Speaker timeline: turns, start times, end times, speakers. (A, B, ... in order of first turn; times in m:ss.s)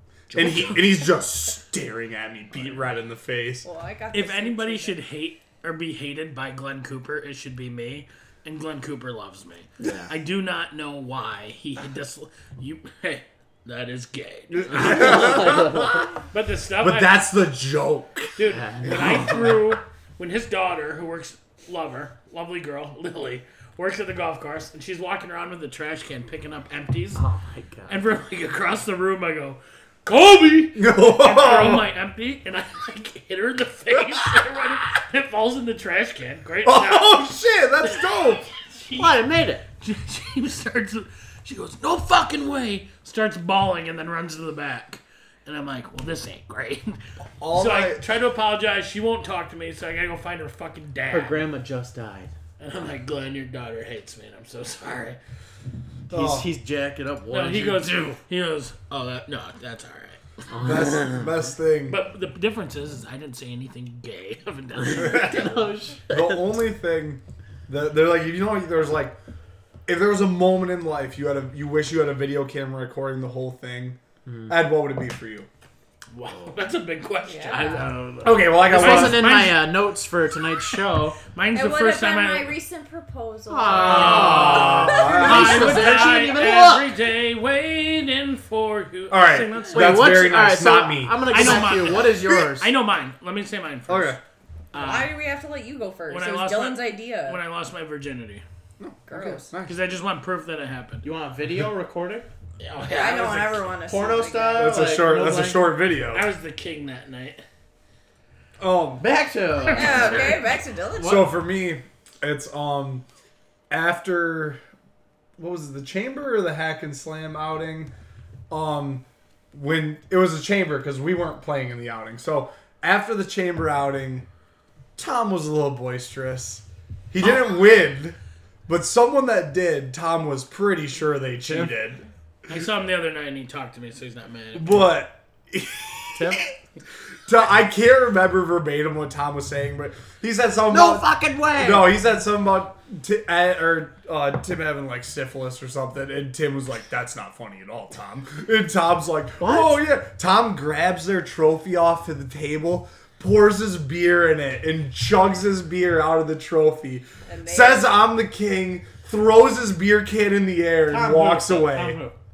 0:00.3-0:00.9 A
0:00.3-0:03.7 B
0:03.6-0:05.0 C
0:04.1-0:17.2 D
0:09.8-0:10.1 A
0:14.5-0:15.9 B
0:14.7-0:16.1 A
0:16.8-0:18.4 B
0:18.4-0:27.2 D
0:18.4-0:19.7 A
0:27.2-0:28.0 A
0:27.9-0:37.3 D
0:30.8-0:31.8 B
0:36.6-0:38.4 B
0:37.8-0:39.2 D
0:39.0-0:39.6 A
0:39.8-0:47.0 D
0:47.4-0:48.0 B
0:47.5-0:51.5 D
0:51.1-0:52.3 A
0:52.6-0:55.2 D
0:56.1-0:58.0 A
0:56.1-0:56.5 B
0:57.3-1:00.2 D
1:00.5-1:01.2 A
1:00.6-1:02.0 B
1:01.9-1:05.7 D
1:04.8-1:06.4 A
1:05.0-1:05.4 B
1:06.1-1:09.2 B
1:09.9-1:15.5 B
1:14.3-1:14.6 A
1:16.1-1:19.7 D
1:17.3-1:18.0 C
1:18.2-1:19.2 B
1:18.3-1:21.2 A
1:21.3-1:22.6 D
1:21.5-1:26.3 C
1:23.5-1:26.9 A
1:23.7-1:26.0 B
1:23.7-1:30.0 D
1:29.1-1:31.8 B
1:29.7-1:32.7 A
1:31.3-1:34.2 D
1:33.9-1:34.2 B
1:34.7-1:35.1 D
1:34.7-1:37.4 C
1:36.1-1:38.4 D
1:38.8-1:39.8 B
1:39.1-1:39.5 C
1:39.7-1:41.0 D
1:41.0-1:42.3 A
1:42.6-1:43.6 D
1:42.9-1:45.0 C
1:43.9-1:45.8 A
1:44.6-1:46.3 B
1:46.1-1:47.4 D
1:48.6-1:49.0 B
1:49.0-1:51.3 A
1:49.6-1:50.4 D
1:49.7-1:51.2 C
1:51.0-1:53.0 B
1:53.7-1:54.6 B
1:55.4-1:57.9 B
1:58.5-2:04.3 B
2:05.0-2:12.0 B
2:12.5-2:14.9 D
2:14.6-2:16.5 B
2:16.2-2:16.4 A
2:17.3-2:42.0 B
2:20.7-2:22.0 A
2:29.4-2:29.8 A
2:37.3-2:38.0 C
2:40.9-2:42.2 A